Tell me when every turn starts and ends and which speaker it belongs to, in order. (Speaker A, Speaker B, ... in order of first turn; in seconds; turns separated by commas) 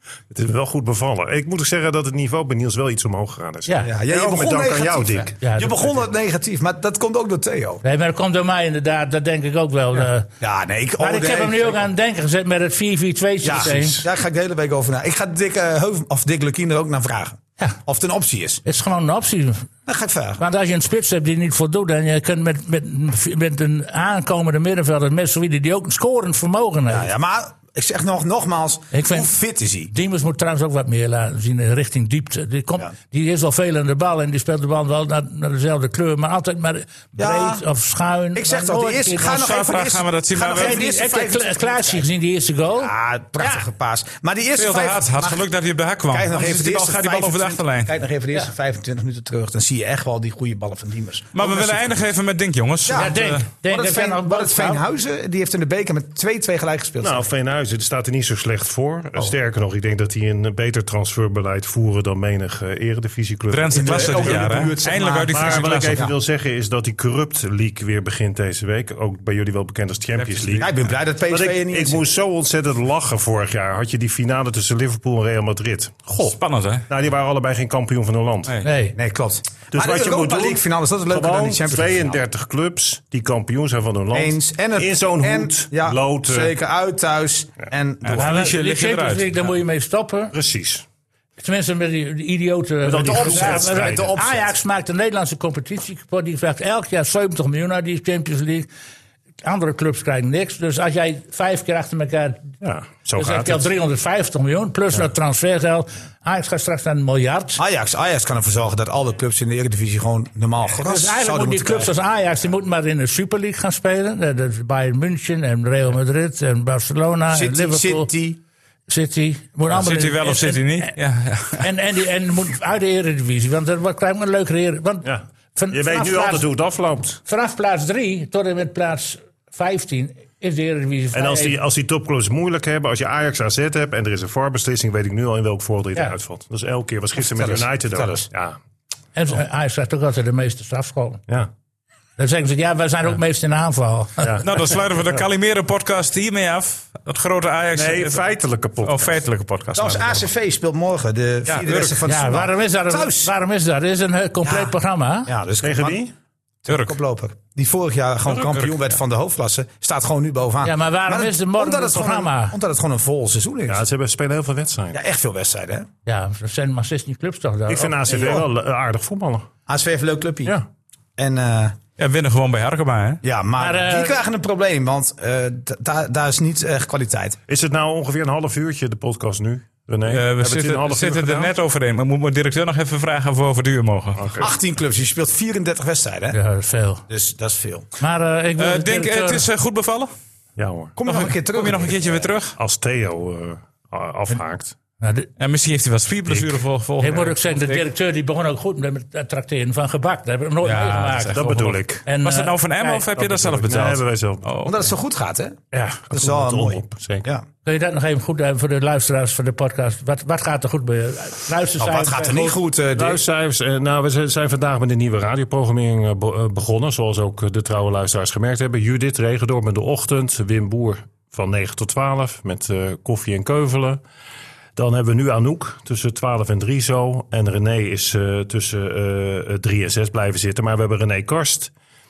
Speaker A: 0.3-5.4, Speaker B: 3.7-3.9, Speaker C: 3.8-7.8, Speaker B: 5.4-5.9, Speaker B: 7.8-10.3, Speaker C: 10.4-11.8, Speaker B: 11.0-14.1, Speaker C: 13.4-18.6, Speaker B: 18.6-19.7, Speaker C: 19.9-20.4, Speaker B: 20.4-27.1, Speaker C: 26.9-29.9, Speaker B: 28.9-29.3, Speaker B: 29.9-39.4, Speaker C: 37.2-37.6, Speaker C: 38.3-42.1, Speaker D: 39.2-40.9, Speaker B: 40.5-43.6, Speaker C: 42.7-45.5, Speaker D: 44.6-48.0, Speaker C: 46.1-52.1, Speaker D: 51.3-53.5, Speaker C: 52.9-57.2, Speaker B: 52.9-54.8, Speaker A: 57.0-64.5, Speaker D: 63.5-66.1, Speaker C: 63.7-66.1, Speaker A: 65.3-70.7, Speaker D: 70.2-70.7, Speaker C: 70.6-72.0, Speaker A: 71.3-76.4, Speaker D: 76.2-76.9, Speaker A: 76.9-78.5, Speaker D: 78.5-78.8, Speaker B: 78.6-79.0, Speaker C: 78.9-82.2, Speaker A: 79.7-86.5, Speaker C: 84.1-88.5, Speaker D: 88.0-89.5, Speaker B: 88.2-90.3, Speaker A: 90.3-90.8, Speaker B: 91.4-98.7, Speaker A: 92.8-94.2, Speaker C: 93.0-94.5, Speaker B: 99.4-102.5, Speaker A: 102.6-103.7, Speaker B: 103.2-107.6, Speaker C: 107.6-111.9, Speaker B: 110.8-118.1, Speaker C: 117.3-118.4, Speaker B: 118.9-121.0, Speaker D: 119.7-121.7, Speaker B: 121.6-126.5, Speaker A: 125.0-127.2, Speaker B: 127.3-131.6, Speaker A: 131.1-138.6, Speaker C: 137.2-138.3, Speaker B: 139.2-141.2, Speaker B: 142.2-144.4, Speaker D: 144.4-148.2, Speaker A: 147.7-149.2, Speaker D: 148.8-150.2, Speaker C: 149.8-153.3, Speaker D: 151.5-152.0, Speaker B: 152.1-155.3, Speaker C: 154.4-154.8, Speaker C: 155.3-156.0, Speaker A: 155.6-156.1, Speaker C: 156.7-163.8, Speaker D: 156.7-157.0, Speaker D: 158.5-158.8, Speaker B: 160.6-162.6, Speaker A: 163.7-165.0, Speaker C: 164.9-165.9, Speaker B: 166.1-168.4, Speaker A: 167.7-169.5, Speaker C: 169.7-170.6, Speaker C: 171.2-171.8, Speaker D: 172.0-173.2, Speaker C: 173.2-177.4, Speaker B: 173.6-174.2, Speaker A: 177.5-181.5, Speaker D: 180.1-184.3, Speaker A: 184.2-184.5, Speaker C: 184.4-186.4, Speaker B: 186.3-187.0, Speaker C: 187.1-187.9, Speaker B: 188.0-189.5, Speaker D: 188.6-190.1, Speaker A: 190.6-191.0, Speaker C: 191.0-192.3, Speaker D: 191.1-192.6, Speaker A: 192.6-194.8, Speaker B: 195.0-195.3, Speaker D: 195.4-197.9, Speaker B: 197.0-203.1, Speaker D: 200.6-201.4, Speaker A: 201.3-202.1, Speaker D: 202.2-204.8, Speaker A: 203.1-204.4, Speaker C: 204.6-205.6, Speaker A: 205.7-207.3, Speaker C: 206.1-207.4, Speaker B: 207.7-212.5, Speaker C: 211.8-213.2, Speaker A: 213.0-224.0, Speaker A: 224.8-231.7